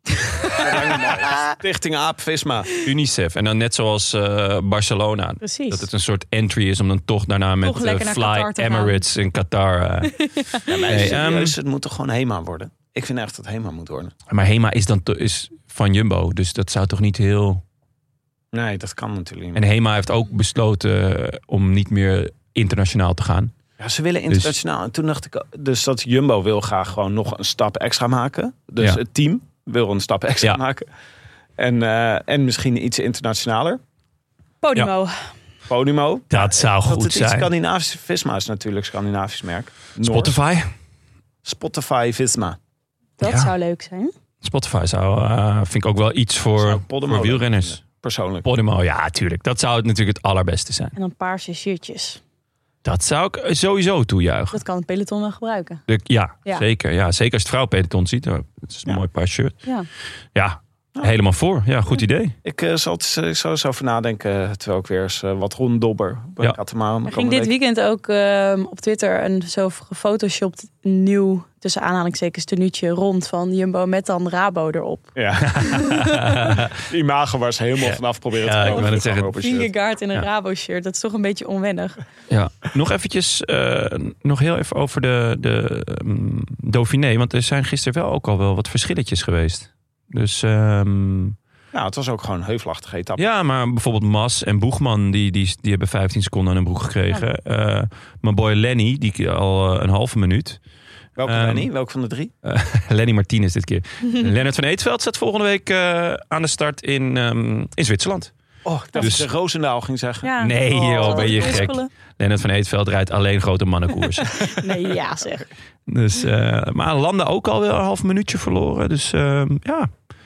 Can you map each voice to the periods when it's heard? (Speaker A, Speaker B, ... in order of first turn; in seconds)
Speaker A: 0.4-1.6, 5.4-5.9, 7.6-9.0, 10.2-10.9, 34.6-35.3, 43.2-44.1, 51.0-52.2, 54.5-55.8, 67.1-76.5, 78.6-82.0, 110.2-111.9, 114.4-115.5
Speaker B: 0.5-2.7, 10.7-14.1, 18.5-19.6, 23.8-30.9, 31.6-33.8, 35.7-40.3, 41.4-42.6, 46.6-48.5, 62.4-67.5, 75.2-75.7, 76.8-79.7, 91.7-93.2, 101.2-102.3, 108.7-111.7
Speaker C: 2.8-11.6, 14.3-17.6, 19.6-23.5, 36.3-37.5, 40.0-40.7, 43.2-43.5, 44.4-47.8, 48.4-50.9, 52.8-54.6, 55.9-59.6, 60.4-62.4, 75.5-76.7, 77.8-79.3, 82.3-91.3, 93.2-100.6, 101.2-101.7, 102.4-108.3, 109.0-109.3, 110.4-114.5, 115.9-119.9